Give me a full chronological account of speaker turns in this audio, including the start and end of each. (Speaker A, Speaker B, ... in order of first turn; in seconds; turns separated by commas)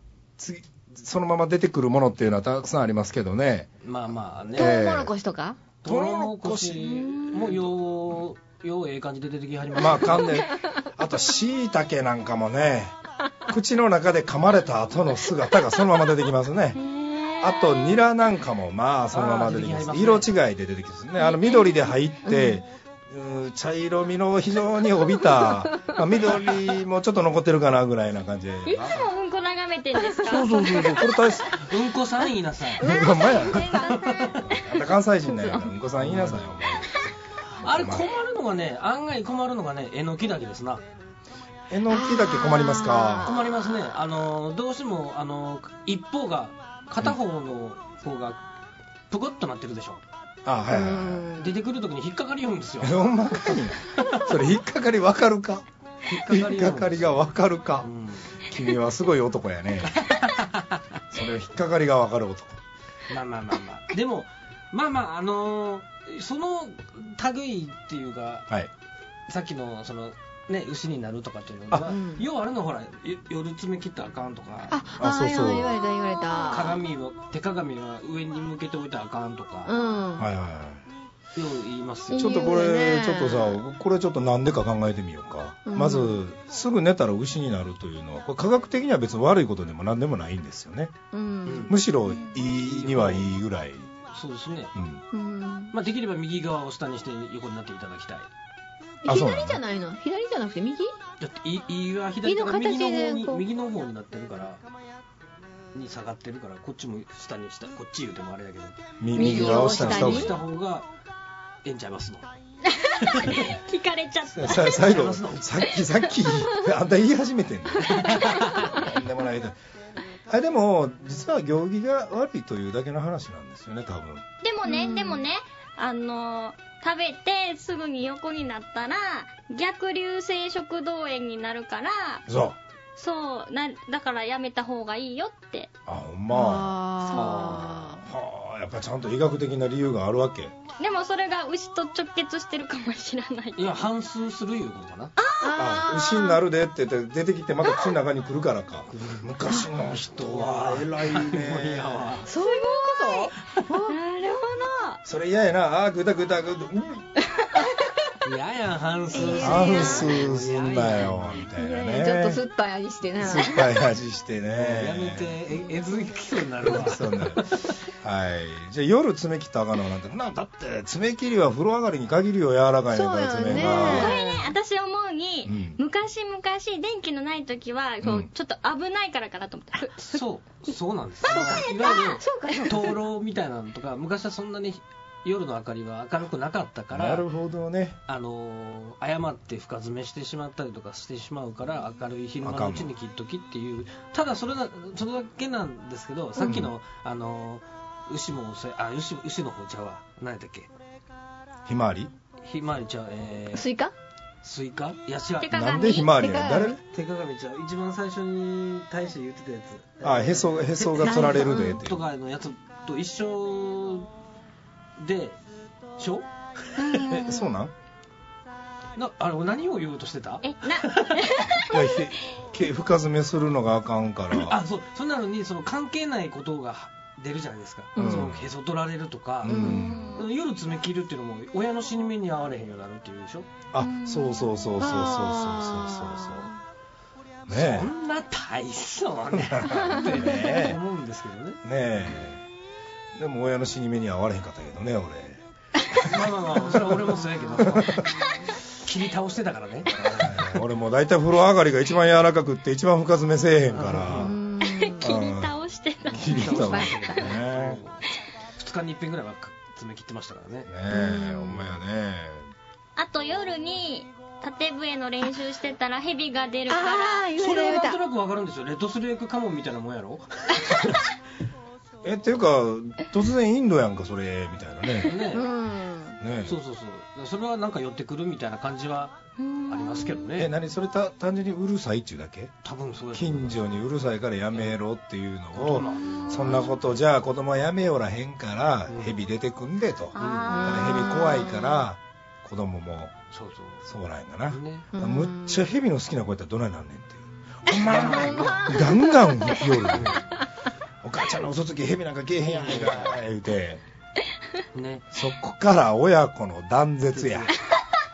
Speaker A: 0.4-3.7, Speaker B: 3.8-4.8, Speaker A: 4.5-5.1, Speaker C: 4.6-5.6, Speaker B: 5.8-10.4, Speaker A: 5.8-7.5, Speaker A: 9.7-16.8, Speaker D: 16.7-18.0, Speaker A: 17.4-29.0, Speaker B: 19.1-20.3, Speaker D: 21.2-21.9, Speaker C: 22.2-22.6, Speaker D: 28.6-30.6, Speaker C: 30.0-31.0, Speaker A: 30.3-31.6, Speaker B: 31.5-32.9, Speaker A: 32.8-33.9, Speaker D: 32.8-34.5, Speaker C: 32.8-34.0, Speaker B: 33.7-34.4, Speaker A: 34.4-37.0, Speaker B: 36.0-36.5, Speaker B: 37.5-40.8, Speaker A: 37.6-38.1, Speaker A: 41.7-43.3, Speaker C: 41.9-43.5, Speaker B: 43.2-48.4, Speaker B: 49.1-50.0, Speaker A: 50.4-51.3, Speaker C: 50.7-51.5, Speaker B: 51.4-53.0, Speaker A: 52.8-60.1, Speaker B: 53.9-54.3, Speaker B: 56.0-57.2, Speaker B: 57.8-58.4, Speaker B: 59.9-60.8, Speaker A: 61.1-62.6, Speaker B: 63.1-68.5, Speaker B: 69.3-74.8, Speaker C: 71.9-72.2, Speaker C: 74.7-76.8, Speaker A: 75.0-75.8, Speaker B: 76.4-79.7, Speaker C: 79.7-80.3, Speaker A: 80.2-80.8, Speaker B: 81.3-82.4, Speaker C: 82.1-83.6, Speaker A: 82.1-90.9, Speaker C: 85.7-86.2, Speaker C: 91.1-91.8, Speaker B: 91.4-91.8, Speaker A: 91.7-93.9, Speaker B: 92.5-93.3, Speaker B: 94.1-94.7, Speaker A: 94.7-95.0, Speaker C: 95.1-95.7, Speaker B: 95.7-98.3, Speaker C: 99.0-100.9, Speaker A: 99.0-99.6, Speaker B: 101.2-104.6, Speaker C: 102.2-103.4, Speaker B: 105.7-110.9, Speaker A: 109.0-110.3, Speaker C: 109.1-110.4, Speaker B: 111.6-112.3, Speaker D: 112.7-115.0, Speaker B: 113.0-113.5, Speaker A: 114.3-119.6, Speaker B: 114.5-115.7, Speaker D: 115.8-116.3, Speaker B: 117.9-118.7, Speaker A: 120.3-124.2, Speaker D: 124.4-132.2, Speaker C: 124.6-125.2, Speaker A: 132.3-132.6, Speaker D: 132.9-135.7, Speaker A: 135.8-136.8, Speaker C: 136.3-138.0, Speaker D: 137.0-137.8, Speaker B: 137.1-137.7, Speaker A: 137.9-140.5, Speaker D: 140.8-143.8, Speaker B: 143.6-145.1, Speaker D: 145.2-146.0, Speaker C: 145.4-146.4, Speaker A: 145.6-152.2, Speaker B: 148.9-152.3, Speaker C: 152.2-153.9, Speaker D: 152.3-153.3, Speaker D: 153.8-155.0, Speaker A: 155.0-157.1, Speaker B: 158.2-161.4, Speaker C: 159.1-160.1, Speaker A: 159.3-162.4, Speaker D: 159.7-159.9, Speaker C: 161.6-163.8, Speaker A: 163.2-165.3, Speaker B: 164.5-167.7, Speaker A: 166.6-174.2, Speaker C: 172.9-174.5, Speaker D: 173.4-180.2, Speaker A: 175.4-175.8, Speaker A: 178.0-178.3, Speaker B: 180.1-187.2, Speaker C: 181.2-183.0, Speaker D: 181.3-182.1, Speaker A: 186.9-188.0, Speaker B: 188.1-200.7, Speaker A: 192.4-192.9, Speaker A: 196.4-196.7, Speaker A: 201.7-202.1, Speaker B: 202.4-203.7, Speaker C: 203.5-203.9, Speaker B: 204.4-205.6, Speaker D: 205.4-206.1, Speaker A: 205.5-206.8, Speaker C: 206.1-206.8, Speaker B: 206.8-214.1, Speaker A: 210.0-212.0, Speaker C: 211.1-211.8, Speaker B: 215.0-215.4, Speaker B: 216.0-217.2, Speaker D: 216.8-217.5, Speaker A: 217.2-217.7, Speaker B: 218.9-221.6, Speaker D: 220.4-222.0, Speaker A: 221.7-224.6, Speaker B: 224.3-233.5, Speaker C: 227.9-228.3, Speaker A: 227.9-228.5, Speaker A: 229.4-230.1, Speaker C: 229.5-230.0, Speaker D: 229.6-230.3, Speaker A: 233.7-236.5, Speaker D: 233.8-234.8, Speaker C: 234.8-236.6, Speaker A: 237.5-237.9, Speaker B: 237.5-241.6, Speaker A: 239.3-240.8, Speaker C: 240.0-240.3, Speaker A: 241.6-242.4, Speaker A: 243.1-245.4, Speaker B: 245.9-248.1, Speaker A: 247.6-248.0, Speaker B: 248.7-250.6, Speaker A: 250.0-254.4, Speaker B: 253.7-254.3, Speaker C: 254.1-255.1, Speaker D: 254.6-256.9, Speaker A: 255.0-255.5, Speaker A: 256.1-257.8, Speaker B: 256.3-260.7, Speaker C: 256.5-257.2, Speaker A: 260.7-262.5, Speaker C: 260.9-261.7, Speaker D: 262.9-267.7, Speaker C: 266.7-268.0, Speaker B: 267.4-271.1, Speaker A: 272.0-275.1, Speaker B: 275.0-275.5, Speaker C: 275.2-276.2, Speaker A: 276.2-276.6, Speaker B: 276.4-280.5, Speaker D: 279.4-280.2, Speaker A: 280.4-282.5, Speaker B: 282.6-283.6, Speaker A: 283.1-293.1, Speaker B: 285.5-286.8, Speaker B: 288.9-289.1, Speaker D: 290.1-291.5, Speaker B: 290.2-290.6, Speaker C: 290.5-291.8, Speaker B: 293.3-293.9, Speaker A: 293.8-300.2, Speaker B: 294.5-294.9, Speaker C: 294.9-295.6, Speaker B: 297.7-298.8, Speaker C: 298.1-299.6, Speaker B: 299.9-300.3, Speaker A: 301.0-303.8, Speaker B: 302.4-303.2, Speaker B: 304.7-305.1, Speaker A: 305.1-307.5, Speaker B: 307.1-307.6